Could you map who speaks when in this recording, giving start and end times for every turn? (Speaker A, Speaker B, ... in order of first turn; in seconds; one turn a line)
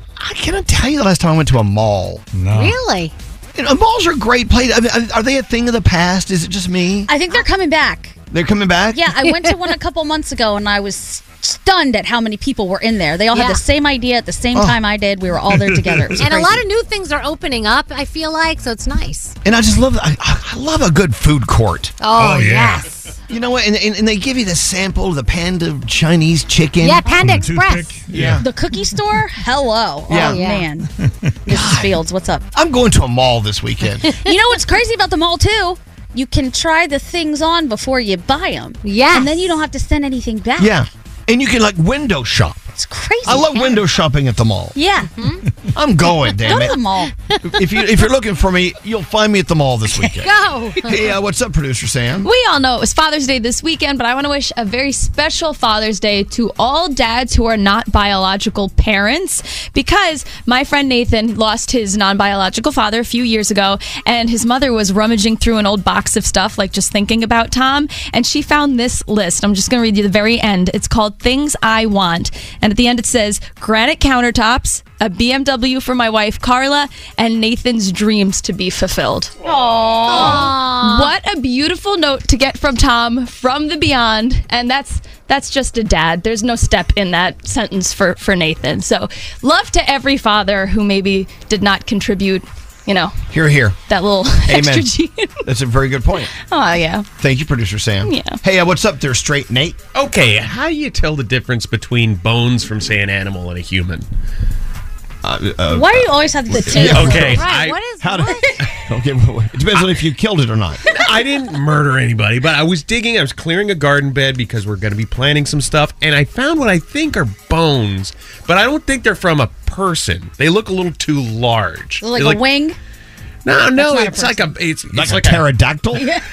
Speaker A: 0.2-2.2
Speaker B: 2.3-2.8
Speaker C: 2.5-3.1
Speaker A: 3.5-7.1
Speaker D: 7.1-8.2
Speaker A: 8.3-9.1
Speaker D: 8.9-16.6
Speaker C: 9.2-9.5
Speaker C: 13.3-13.6
Speaker A: 14.5-14.8
Speaker B: 15.5-16.0
Speaker C: 16.1-19.4
Speaker A: 19.4-21.9
Speaker C: 22.0-23.1
Speaker B: 22.1-22.9
Speaker A: 23.3-27.1
Speaker C: 26.8-27.9
Speaker B: 27.1-28.4
Speaker A: 28.1-28.4
Speaker D: 28.4-30.9
Speaker A: 30.1-30.4
Speaker C: 30.1-30.6
Speaker D: 31.4-32.5
Speaker A: 31.5-32.0
Speaker A: 32.5-34.1
Speaker D: 34.2-40.8
Speaker C: 38.8-39.4
Speaker A: 40.6-42.7
Speaker D: 42.8-43.7
Speaker A: 43.2-44.8
Speaker D: 44.7-45.1
Speaker C: 45.2-45.4
Speaker A: 45.7-46.8
Speaker C: 46.4-46.7
Speaker D: 46.4-47.1
Speaker A: 47.4-50.3
Speaker C: 50.2-51.0
Speaker A: 50.8-52.3
Speaker E: 52.2-79.3
Speaker D: 79.4-80.5
Speaker C: 80.1-81.1
Speaker E: 80.1-93.2
Speaker A: 93.3-93.8
Speaker E: 93.9-95.4
Speaker A: 94.4-94.9
Speaker A: 95.4-96.3
Speaker E: 96.4-97.1
Speaker A: 97.2-99.8
Speaker E: 98.0-98.4
Speaker F: 99.9-104.1
Speaker A: 105.2-110.8
Speaker D: 105.7-107.4
Speaker F: 106.7-107.8
Speaker C: 106.7-108.6
Speaker F: 110.9-122.4
Speaker D: 122.0-122.8
Speaker F: 123.4-125.4
Speaker D: 123.7-124.6
Speaker A: 124.9-126.1
Speaker D: 126.0-126.2